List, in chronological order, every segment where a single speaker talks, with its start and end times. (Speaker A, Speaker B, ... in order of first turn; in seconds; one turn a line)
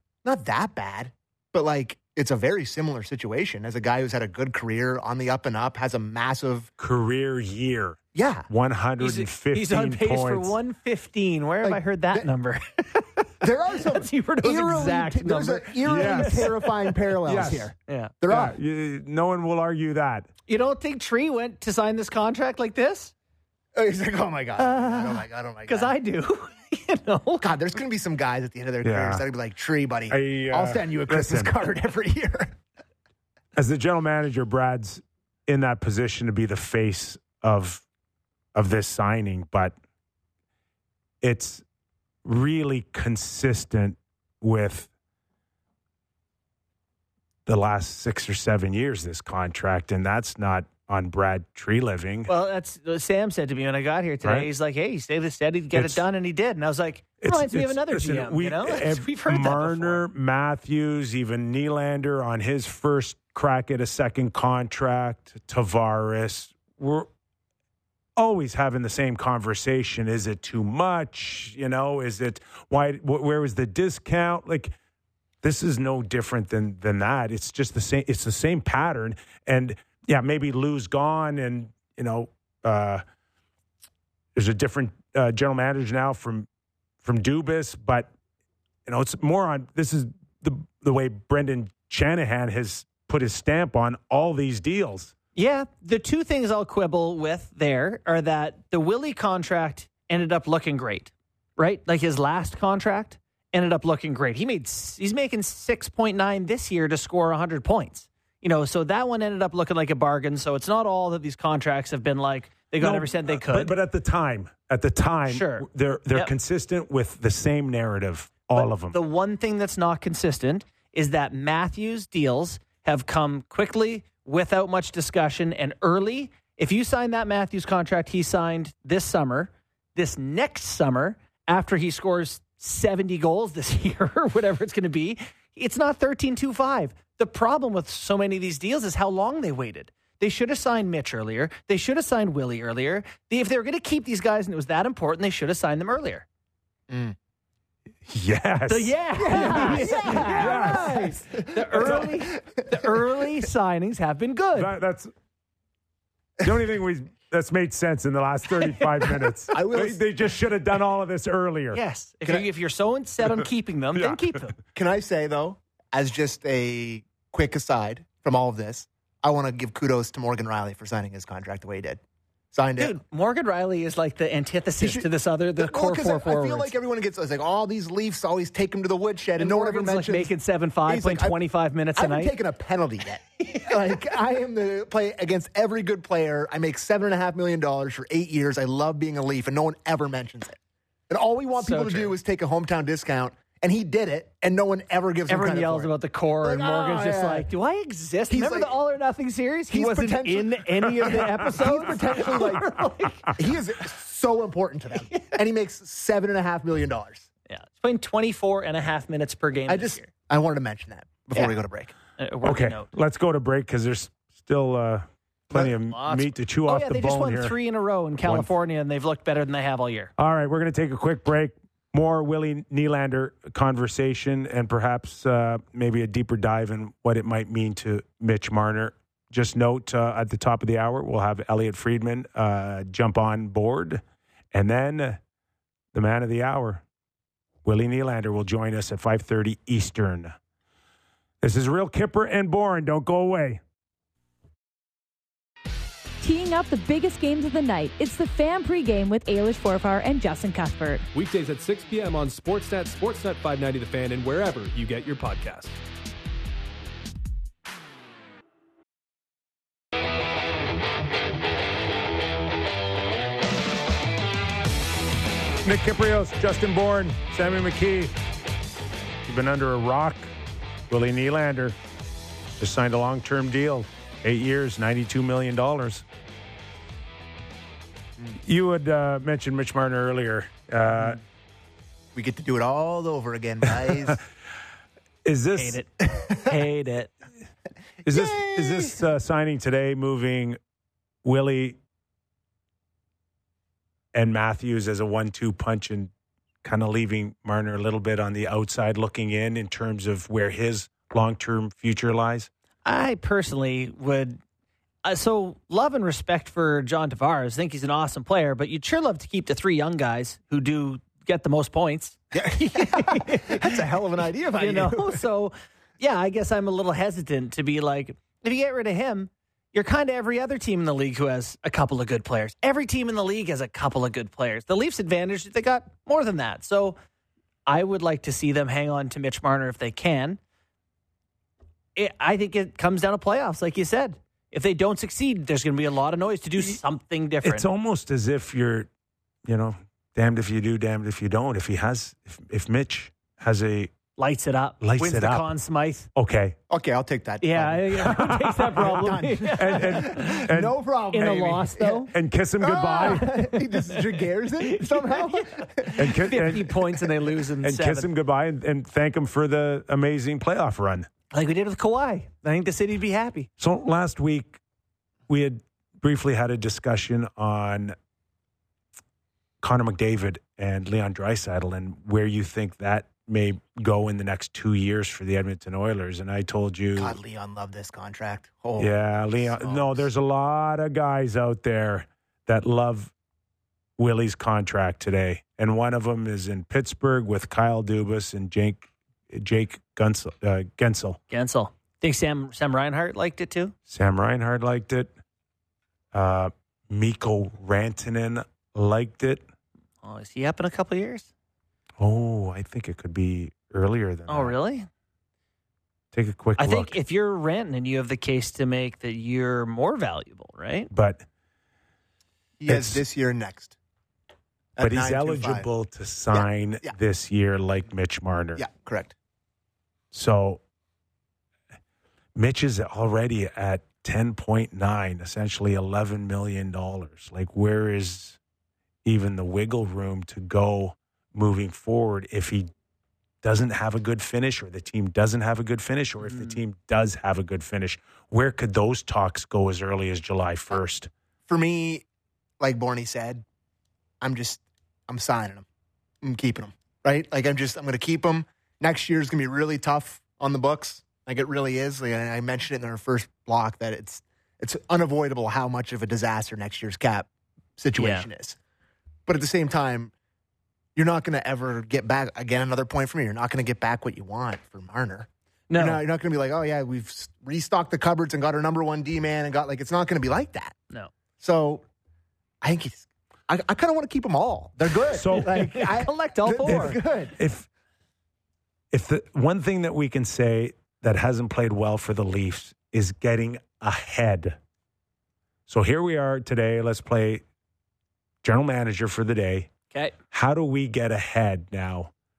Speaker A: 0.2-6.7
Speaker B: 6.8-8.0
Speaker A: 8.1-8.5
Speaker B: 8.5-10.6
Speaker C: 9.0-16.7
Speaker A: 11.6-12.3
Speaker A: 13.4-18.6
Speaker B: 15.8-16.5
Speaker B: 17.2-17.7
Speaker C: 17.9-18.1
Speaker B: 18.2-20.3
Speaker C: 20.5-23.1
Speaker A: 23.7-25.9
Speaker C: 24.6-27.5
Speaker A: 27.4-32.6
Speaker B: 28.8-29.2
Speaker B: 30.1-31.5
Speaker B: 33.5-37.8
Speaker B: 38.5-39.7
Speaker B: 41.2-41.6
Speaker B: 42.2-44.9
Speaker B: 47.5-52.3
Speaker C: 52.3-60.0
Speaker B: 54.2-54.5
Speaker B: 55.7-56.0
Speaker B: 57.2-67.1
Speaker B: 68.2-74.7
Speaker B: 75.4-83.0
Speaker B: 84.3-86.5
Speaker B: 87.0-88.1
Speaker B: 88.8-95.1
Speaker C: 95.3-113.7
Speaker B: 112.8-119.0
Speaker C: 115.3-116.3
Speaker C: 118.5-146.2
Speaker A: 146.9-147.2
Speaker B: 148.1-151.1
Speaker C: 148.7-154.7
Speaker A: 149.2-153.0
Speaker B: 151.8-152.1
Speaker B: 154.6-155.1
Speaker B: 156.4-161.8
Speaker A: 159.5-160.0
Speaker C: 161.7-164.5
Speaker B: 163.9-164.2
Speaker A: 164.7-172.0
Speaker A: 172.5-172.9
Speaker C: 172.8-176.7
Speaker A: 174.8-180.3
Speaker C: 179.4-182.3
Speaker A: 180.8-181.4
Speaker A: 181.9-190.6
Speaker A: 191.1-197.5
Speaker C: 191.6-192.2
Speaker C: 195.3-203.4
Speaker A: 198.3-198.7
Speaker A: 199.7-202.8
Speaker A: 203.3-207.3
Speaker C: 205.0-205.3
Speaker C: 207.5-210.1
Speaker A: 209.7-211.9
Speaker C: 212.2-212.9
Speaker B: 212.4-217.5
Speaker C: 215.6-220.1
Speaker B: 218.2-218.5
Speaker B: 220.2-234.0
Speaker B: 234.5-235.2
Speaker B: 235.9-236.8
Speaker B: 237.6-240.3
Speaker B: 241.4-243.6
Speaker D: 246.2-251.1
Speaker E: 251.1-255.8
Speaker B: 265.6-268.1
Speaker B: 269.2-270.3
Speaker B: 270.9-271.8
Speaker B: 272.6-276.0
Speaker B: 278.4-281.2
Speaker A: 282.1-284.2
Speaker B: 283.9-284.2
Speaker B: 285.2-285.8
Speaker C: 285.5-287.1
Speaker A: 286.0-286.5
Speaker B: 288.0-290.6
Speaker A: 288.1-289.0
Speaker B: 291.2-291.8
Speaker B: 294.1-296.1
Speaker B: 296.6-302.5
Speaker C: 302.8-304.4
Speaker C: 305.0-313.8
Speaker A: 312.3-315.2
Speaker C: 314.6-327.0
Speaker C: 327.7-330.4
Speaker C: 331.9-337.6
Speaker B: 337.4-338.9
Speaker B: 339.4-343.9
Speaker C: 344.2-346.1
Speaker B: 344.8-345.5
Speaker B: 346.1-346.6
Speaker A: 346.7-356.0
Speaker C: 347.4-350.4
Speaker B: 348.1-350.7
Speaker C: 351.1-352.1
Speaker B: 352.1-353.4
Speaker C: 353.0-358.1
Speaker B: 356.0-356.7
Speaker B: 357.6-361.1
Speaker C: 361.3-363.5
Speaker B: 363.6-364.6
Speaker B: 365.3-367.9
Speaker B: 369.6-377.1
Speaker A: 376.9-380.1
Speaker B: 378.8-383.1
Speaker B: 384.0-391.2
Speaker C: 391.3-393.7
Speaker B: 393.9-395.1
Speaker B: 396.1-399.4
Speaker C: 400.0-401.3
Speaker B: 402.0-404.6
Speaker C: 404.3-404.9
Speaker B: 406.1-406.9
Speaker C: 406.6-410.9
Speaker B: 410.9-411.2
Speaker A: 412.6-413.8
Speaker B: 412.7-413.0
Speaker A: 414.8-415.7
Speaker B: 414.8-418.6
Speaker A: 416.3-416.9
Speaker A: 418.6-419.1
Speaker B: 420.1-420.6
Speaker B: 422.4-428.4
Speaker B: 429.0-432.7
Speaker B: 433.4-441.1
Speaker C: 436.2-436.6
Speaker A: 441.5-442.0
Speaker A: 442.6-443.4
Speaker A: 444.2-445.6
Speaker A: 446.2-458.6
Speaker C: 458.0-458.3
Speaker A: 459.3-460.1
Speaker A: 460.9-470.7
Speaker C: 465.7-466.0
Speaker A: 471.4-471.8
Speaker A: 472.6-477.4
Speaker B: 475.1-475.7
Speaker C: 475.4-477.0
Speaker B: 476.7-477.7
Speaker B: 478.9-484.6
Speaker B: 485.7-487.4
Speaker B: 488.4-489.7
Speaker B: 490.3-492.1